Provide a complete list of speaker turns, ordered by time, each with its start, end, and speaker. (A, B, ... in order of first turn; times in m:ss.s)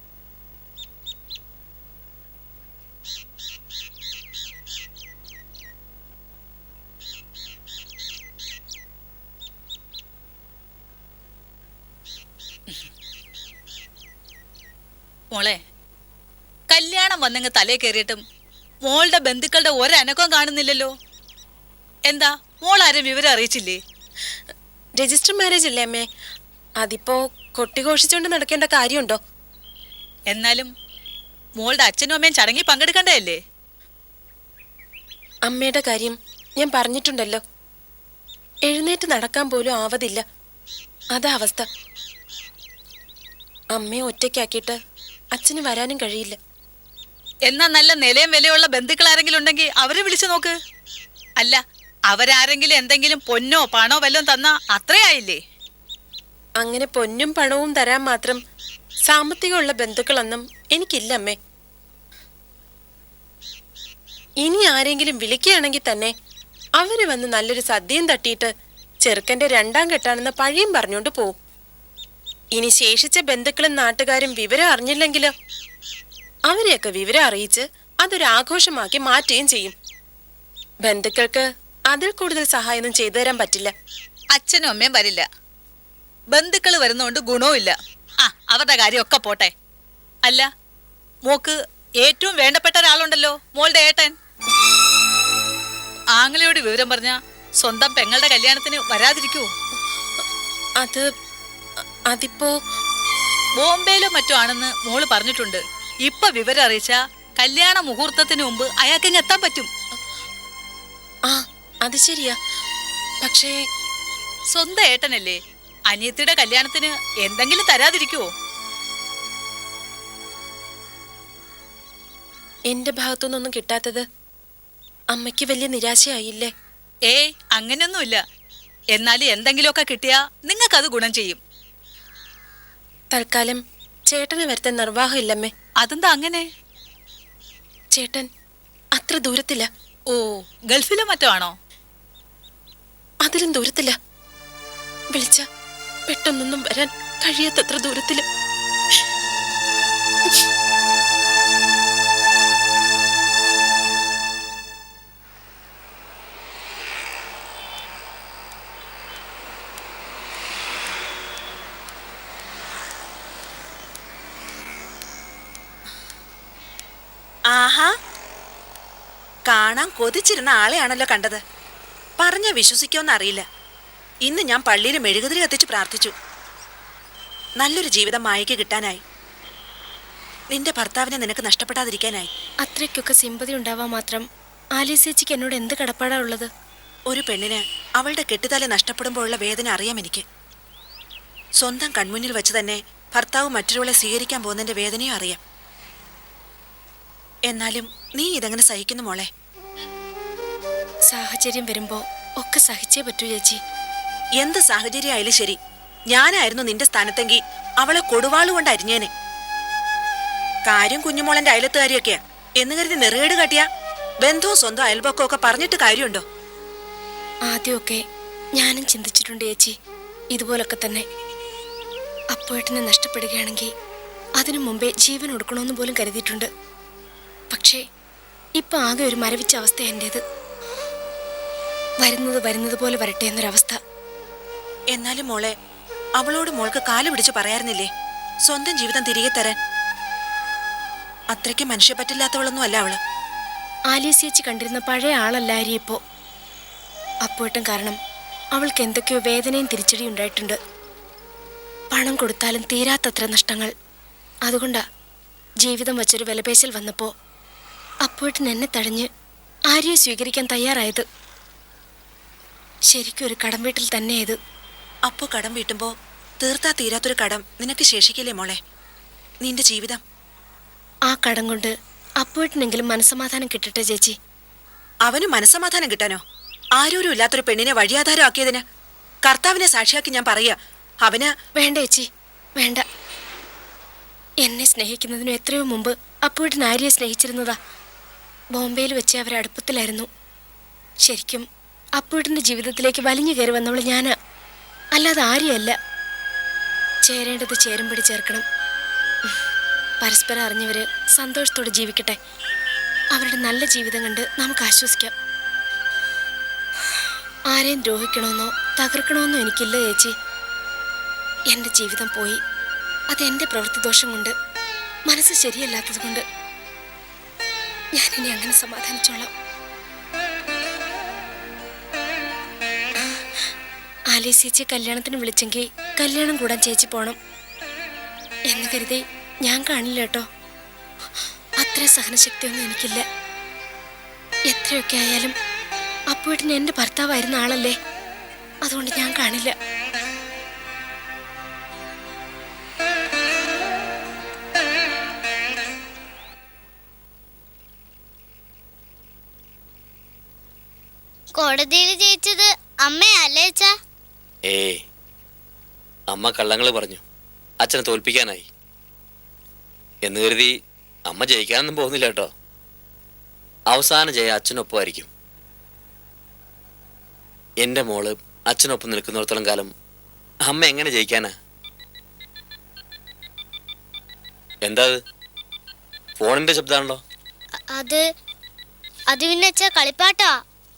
0:15.3-0:15.6 A
0:16.7-0:18.2 A
0:18.9-0:20.9 A
0:22.1-0:23.8 A
0:25.0-0:26.0 B
0:26.8-0:29.2 B
0:30.3-0:30.7 A
0:31.6-0:33.4 A
0:35.5-0:37.4 B
0:38.7-0:40.2 B
0:41.2-0:41.7 B
0:43.8-0:44.8 B
0:45.4-0:46.4 B
0:47.5-0:50.5 A
0:52.1-0:55.4 A
0:56.6-0:58.4 B
0:59.1-1:01.4 B
1:04.4-1:06.1 B
1:06.8-1:08.5 B
1:09.0-1:11.3 B
1:12.6-1:15.3 B
1:16.5-1:19.8 B
1:20.8-1:23.7 B
1:24.4-1:25.2 A
1:26.3-1:27.7 A
1:28.3-1:29.5 A
1:31.3-1:34.1 A
1:36.2-1:39.5 A
1:42.1-1:42.5 B
1:43.6-1:49.7 A
1:51.3-1:52.4 B
1:53.2-1:53.5 B
1:54.6-1:55.4 A
1:55.9-1:58.3 A
2:02.7-2:04.0 B
2:05.1-2:06.5 B
2:07.1-2:08.2 A
2:09.0-2:11.4 A
2:13.1-2:15.5 B
2:15.8-2:16.5 A
2:17.9-2:18.3 B
2:19.0-2:19.7 B
2:20.1-2:21.5 A
2:23.2-2:24.0 B
2:25.1-2:25.4 B
2:26.1-2:28.2 B
2:47.5-2:47.9 C
2:49.5-2:51.4 C
2:52.2-2:53.4 C
2:54.2-2:56.1 C
2:57.6-2:59.0 C
3:00.5-3:02.3 C
3:02.6-3:04.2 D
3:04.8-3:06.5 D
3:07.1-3:10.2 C
3:11.6-3:15.4 C
3:17.5-3:19.3 C
3:21.1-3:23.6 D
3:24.4-3:25.6 C
3:26.1-3:29.1 C
3:30.7-3:33.7 C
3:34.2-3:36.2 C
3:37.5-3:38.0 D
3:38.6-3:39.7 D
3:40.3-3:41.0 D
3:42.3-3:43.7 D
3:44.4-3:46.5 D
3:47.5-3:47.8 D
3:48.6-3:50.2 D
3:52.0-3:53.8 D
3:54.9-3:55.5 C
3:56.2-3:57.9 C
3:58.4-3:59.6 C
4:01.3-4:03.0 C
4:03.9-4:06.0 D
4:07.3-4:08.0 D
4:08.6-4:10.6 D
4:11.9-4:13.7 D
4:14.5-4:14.8 D
4:15.6-4:17.1 D
4:18.1-4:19.1 D
4:19.7-4:21.0 D
4:22.9-4:24.4 D
4:25.1-4:25.9 C
4:26.4-4:28.6 C
4:29.4-4:30.0 C
4:31.1-4:31.7 D
4:32.2-4:34.1 D
4:35.1-4:36.2 C
4:36.8-4:38.6 C
4:39.2-4:41.3 C
4:41.6-4:42.1 D
4:42.6-4:42.8 D
4:44.4-4:47.6 D
4:48.5-4:50.1 D
4:51.0-4:51.4 D
4:52.0-4:54.2 D
4:55.0-4:55.8 D
4:57.0-4:58.4 D
5:00.0-5:02.2 D
5:03.1-5:05.1 D
5:07.5-5:10.1 D
5:11.5-5:12.4 D
5:13.1-5:14.3 D
5:15.1-5:16.2 D
5:18.0-5:19.3 D
5:24.1-5:27.2 D
5:28.5-5:30.2 D
5:31.6-5:33.0 D
5:34.5-5:35.3 D
5:36.1-5:37.8 D
5:38.6-5:39.5 D
5:51.4-5:53.7 E
5:54.5-5:54.8 F
5:56.1-5:57.0 F
5:57.6-5:58.5 F
6:00.0-6:00.5 F
6:01.1-6:02.3 F
6:03.7-6:05.1 F
6:07.6-6:09.7 F
6:10.4-6:11.3 F
6:14.6-6:15.0 F
6:16.2-6:17.0 F
6:17.7-6:18.0 E
6:19.1-6:20.4 E